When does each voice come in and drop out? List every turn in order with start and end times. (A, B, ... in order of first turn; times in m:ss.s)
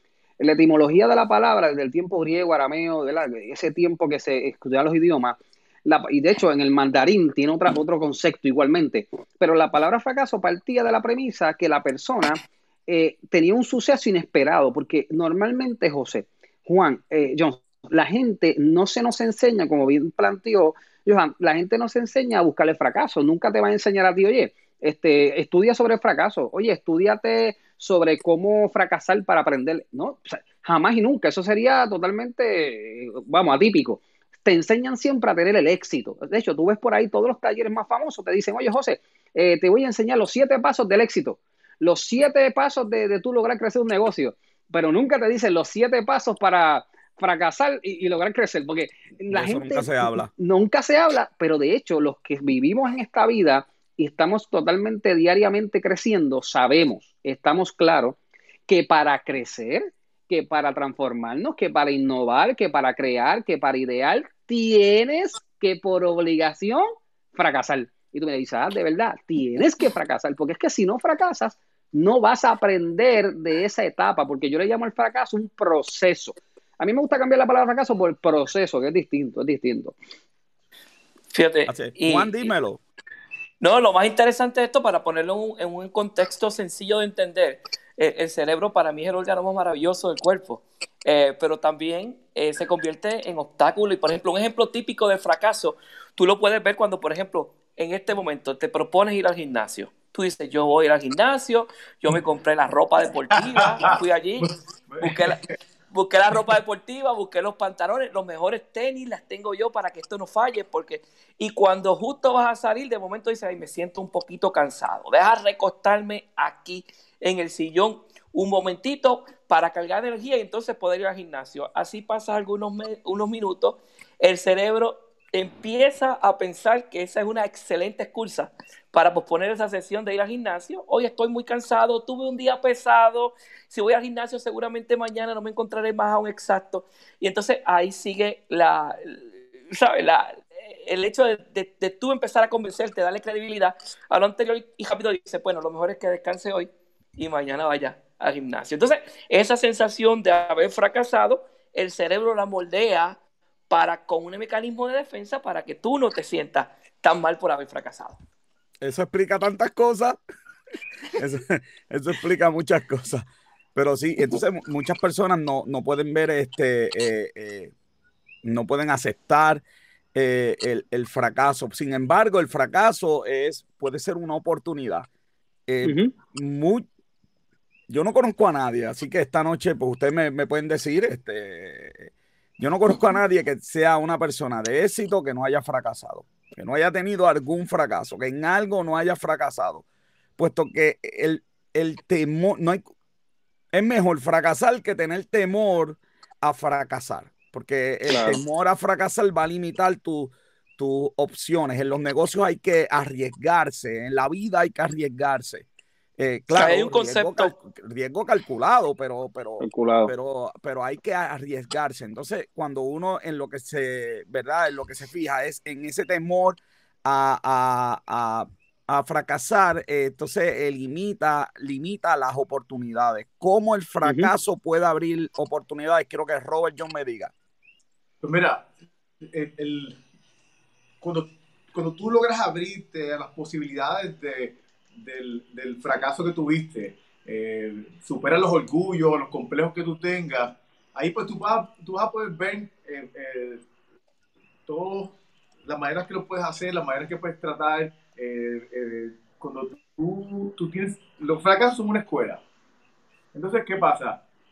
0:00.4-1:19.9 A
0:49.3-0:50.3 B
1:21.3-1:22.5 C
1:21.7-1:22.8 B
1:23.6-1:45.4 C
1:43.5-1:43.9 D
1:44.9-1:45.5 D
1:45.9-2:33.2 C
2:33.7-2:38.2 C
2:38.8-2:40.2 B
2:41.1-2:47.7 B
2:48.4-2:49.6 B
2:50.1-2:55.1 B
2:55.7-2:56.9 B
2:55.8-2:56.1 A
2:57.9-3:09.8 B
3:10.4-3:12.8 B
3:13.7-3:25.6 B
3:18.1-3:18.4 A
3:26.2-3:47.3 B
3:26.5-3:27.5 C
3:29.6-3:30.1 A
3:44.0-3:44.3 A
3:48.2-3:48.7 D
3:49.3-3:50.0 D
3:51.0-4:03.6 D
4:04.7-4:12.4 D
4:13.3-4:14.2 D